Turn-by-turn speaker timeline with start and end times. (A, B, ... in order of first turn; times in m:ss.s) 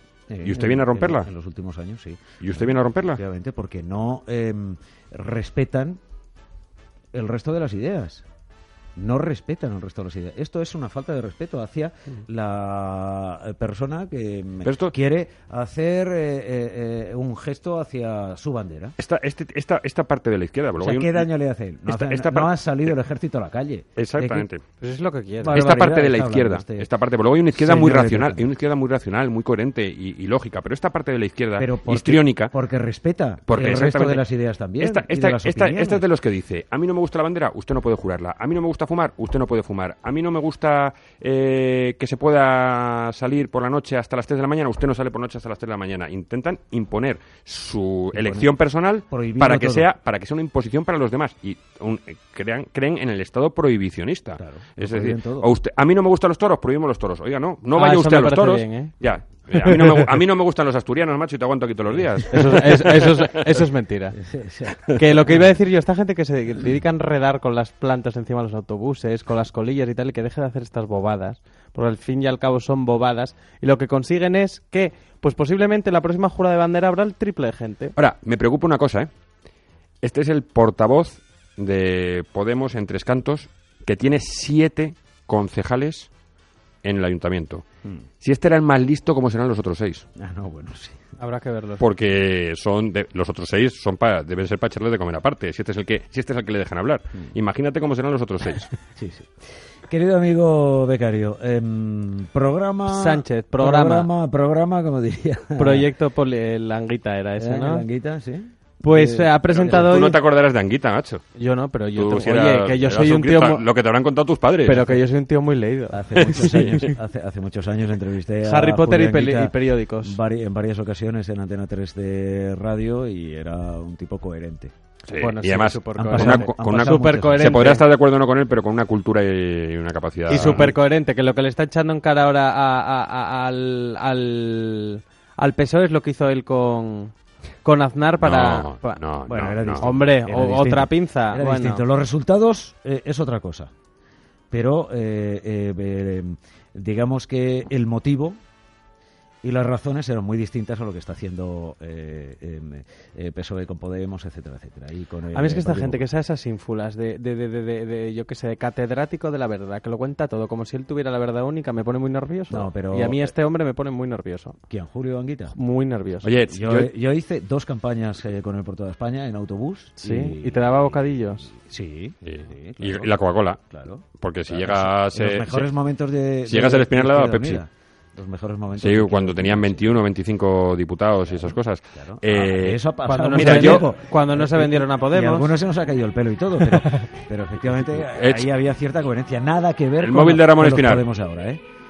0:00.3-0:06.0 A
0:00.4-0:01.3 B
0:02.4-0:03.2 B
0:07.1-0:08.2 A
0:09.0-0:18.9 A
0:14.6-0:14.9 B
0:19.0-0:21.3 B
0:20.8-0:24.5 A
0:21.9-0:22.9 B
0:24.0-0:24.6 B
0:24.8-0:25.7 C
0:25.4-0:26.9 A
0:25.5-0:32.5 B
0:27.5-0:28.5 A
0:31.6-0:36.0 A
0:33.5-0:34.2 B
0:34.8-1:03.3 B
0:48.1-0:48.5 A
0:49.1-0:49.9 A
0:54.4-0:55.5 A
0:57.7-0:58.9 C
1:02.3-1:04.2 C
1:04.1-1:04.8 A
1:04.9-1:17.9 C
1:18.0-1:19.1 B
1:20.0-1:26.1 B
1:26.8-1:27.6 B
1:28.2-1:30.0 B
1:30.2-1:31.0 A
1:31.2-1:31.8 C
1:31.8-1:38.7 B
1:39.0-1:39.3 A
1:39.9-1:45.9 A
1:42.9-1:44.1 C
1:45.6-1:47.8 C
1:47.4-1:50.0 A
1:48.8-1:50.2 C
1:49.5-1:51.2 B
1:51.4-1:53.6 C
1:51.9-1:55.0 B
1:54.6-1:56.9 C
1:55.9-2:04.7 A
1:56.4-1:56.8 B
1:58.4-2:00.2 C
2:05.1-2:10.7 B
2:05.2-2:07.8 C
2:06.0-2:07.7 A
2:10.3-2:17.1 C
2:10.3-2:10.7 A
2:17.6-2:21.8 C
2:18.2-2:19.9 B
2:19.3-2:23.7 A
2:24.5-2:28.4 A
2:29.4-2:36.0 A
2:35.3-2:44.6 C
2:42.5-2:43.3 A
2:44.7-2:45.5 A
2:45.5-2:46.3 C
2:46.2-2:46.9 B
2:46.5-2:51.0 A
2:50.0-2:51.5 C
2:51.5-3:00.0 A
2:52.2-2:53.6 B
2:54.2-2:55.7 B
2:56.4-2:57.6 B
2:58.8-3:02.8 B
3:02.0-3:11.6 A
3:03.0-3:05.5 C
3:03.3-3:03.9 B
3:08.1-3:08.5 B
3:10.0-3:11.0 B